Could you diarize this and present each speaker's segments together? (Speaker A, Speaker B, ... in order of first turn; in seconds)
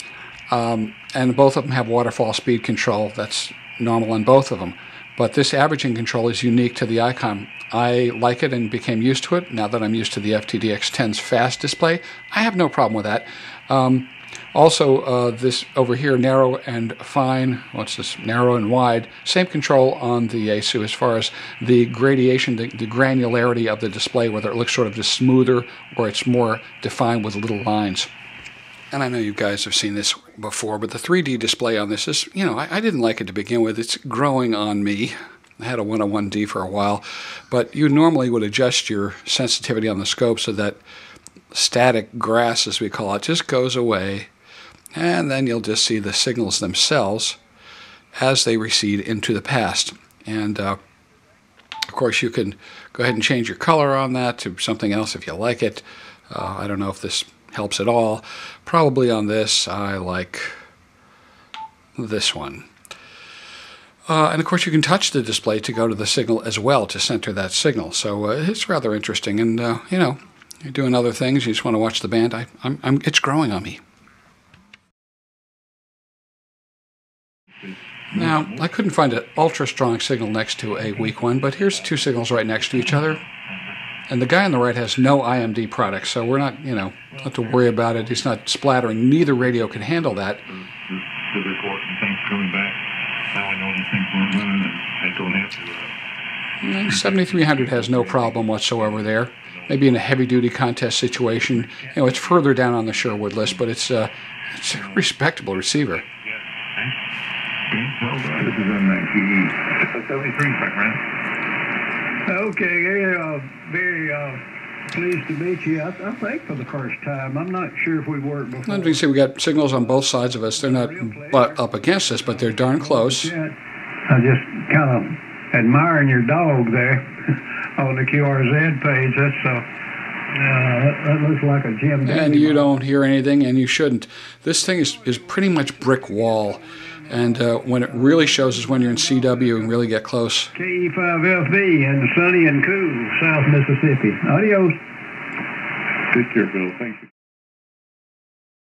Speaker A: 0.5-28.1, 28.9-40.8, 41.5-44.3, 44.9-47.4, 48.2-50.8, 51.9-60.5, 62.0-62.7, 64.1-73.8, 78.1-83.2, 84.1-90.4, 96.6-106.0, 118.6-123.3, 132.0-140.5
Speaker B: 77.6-78.7, 82.7-83.7, 90.4-95.9, 96.7-100.1, 102.0-102.4, 104.7-105.0, 106.2-107.0, 107.7-111.1, 146.1-147.1
Speaker C: 112.2-123.5, 124.1-129.7, 130.3-132.7, 136.7-139.8, 140.5-144.8